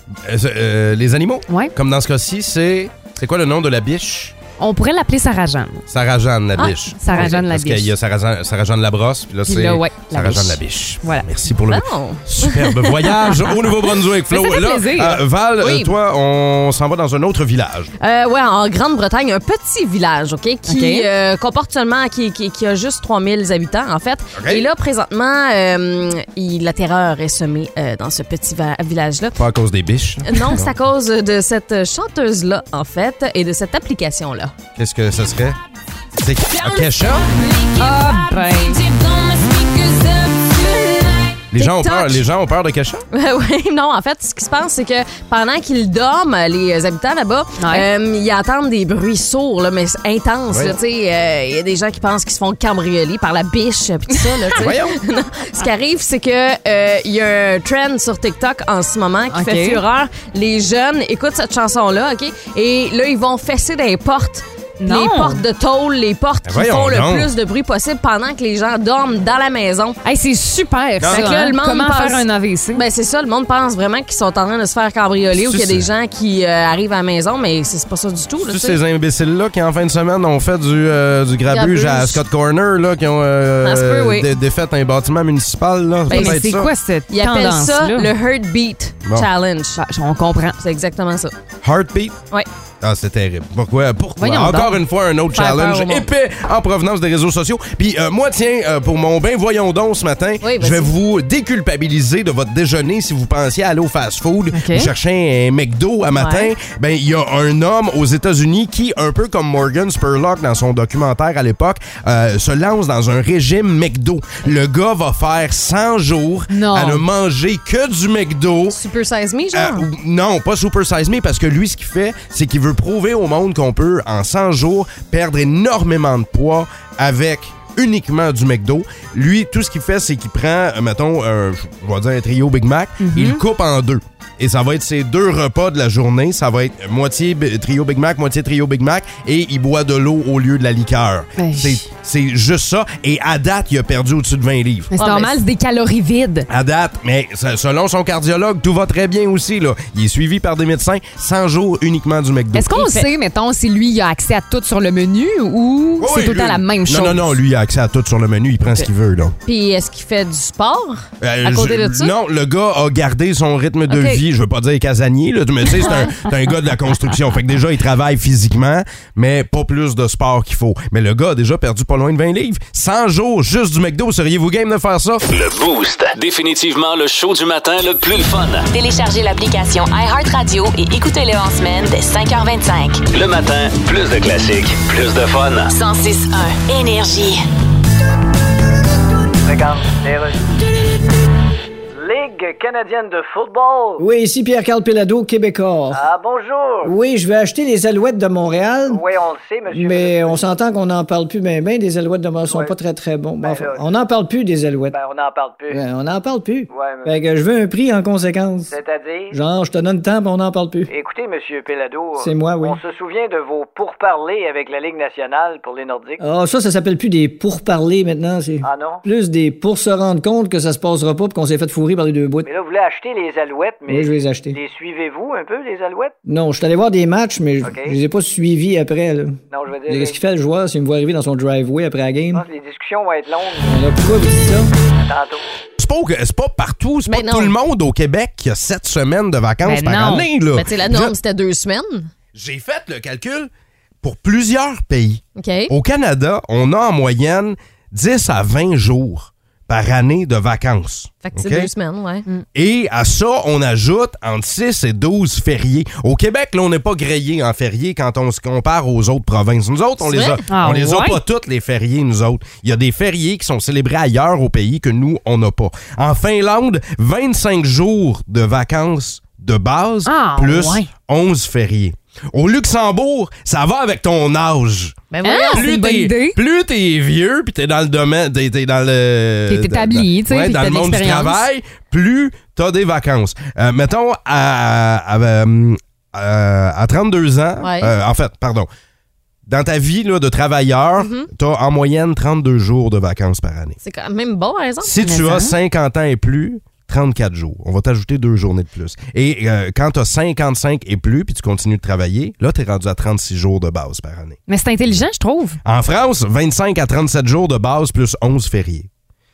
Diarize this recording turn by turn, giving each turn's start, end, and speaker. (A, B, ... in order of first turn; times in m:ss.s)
0:00.2-0:04.3 A
0:04.6-0:05.8 B
0:05.9-0:17.9 A
0:06.6-0:07.3 C
0:07.0-0:07.9 B
0:09.4-0:11.2 B
0:11.6-0:13.4 C
0:14.3-0:15.2 B
0:15.6-0:15.9 C
0:18.0-0:29.4 C
0:20.7-0:21.0 B
0:24.3-0:24.6 A
0:29.4-0:30.7 A
0:30.3-0:34.5 C
0:34.8-0:35.6 A
0:36.2-0:37.3 A
0:36.6-0:42.2 C
0:37.8-0:38.8 B
0:41.5-0:43.0 A
0:43.1-1:10.0 C
0:47.6-0:47.8 B
0:50.5-0:50.8 A
0:54.6-0:55.0 A
0:59.3-0:59.8 B
1:04.8-1:05.4 B
1:06.4-1:07.3 A
1:10.0-1:12.8 B
1:11.1-1:18.8 C
1:15.3-1:15.8 A
1:18.4-1:26.7 A
1:21.5-1:22.2 C
1:23.6-1:24.3 C
1:26.1-1:26.4 C
1:26.1-1:28.1 B
1:27.1-1:29.8 C
1:29.8-1:30.6 B
1:30.6-1:31.3 C
1:31.6-1:32.2 A
1:32.8-1:58.8 A
1:34.2-1:34.8 B
1:35.3-1:36.1 C
1:40.4-1:40.9 C
1:44.5-1:44.9 B
1:46.1-1:46.5 C
1:56.5-1:57.0 B
1:58.7-1:59.9 C
1:59.5-2:24.9 A
2:13.0-2:13.4 B
2:21.4-2:21.8 B
2:24.9-2:26.5 B
2:25.0-2:25.4 C
2:26.5-2:32.9 A
2:32.5-2:37.3 B
2:36.0-2:39.4 A
2:39.4-2:42.1 C
2:41.2-2:55.2 A
2:43.9-2:44.2 C
2:55.3-2:58.7 D
2:58.7-3:03.0 E
3:03.1-3:05.7 D
3:05.7-3:07.4 E
3:09.4-3:10.4 F
3:12.0-3:14.0 F
3:14.0-3:16.0 G
3:15.9-3:16.9 F
3:16.8-3:19.0 G
3:18.9-3:20.4 F
3:19.7-3:25.0 G
3:22.4-3:22.7 F
3:23.4-3:23.9 F
3:24.9-3:25.8 F
3:25.7-3:28.7 G
3:26.7-3:27.2 F
3:28.7-3:29.3 F
3:29.3-3:30.9 G
3:30.9-3:36.2 F
3:32.2-3:32.8 G
3:36.2-3:42.5 G
3:38.6-3:39.0 F
3:42.4-3:46.1 F
3:43.9-3:44.6 G
3:46.2-3:52.4 G
3:47.6-3:48.0 F
3:49.5-3:50.2 F
3:52.3-3:53.8 F
3:53.7-3:54.7 G
3:55.0-3:55.4 F
3:55.8-4:01.1 A
3:57.1-3:57.5 C
3:59.6-4:00.3 B
4:00.5-4:02.1 C
4:02.3-4:03.5 A
4:04.0-4:11.7 A
4:05.4-4:05.7 C
4:11.2-4:12.2 C
4:12.5-4:35.0 A
4:20.0-4:20.4 C
4:20.5-4:21.2 B
4:30.0-4:30.8 B
4:35.1-4:35.8 C
4:35.2-4:36.4 B
4:35.5-4:48.7 A
4:39.5-4:41.4 B
4:47.6-4:47.9 C
4:49.4-4:53.8 A
4:51.0-4:51.3 C
4:53.8-4:55.2 C
4:54.8-5:04.4 A
4:55.0-4:55.5 B
5:04.5-5:05.6 B
5:05.6-5:08.9 A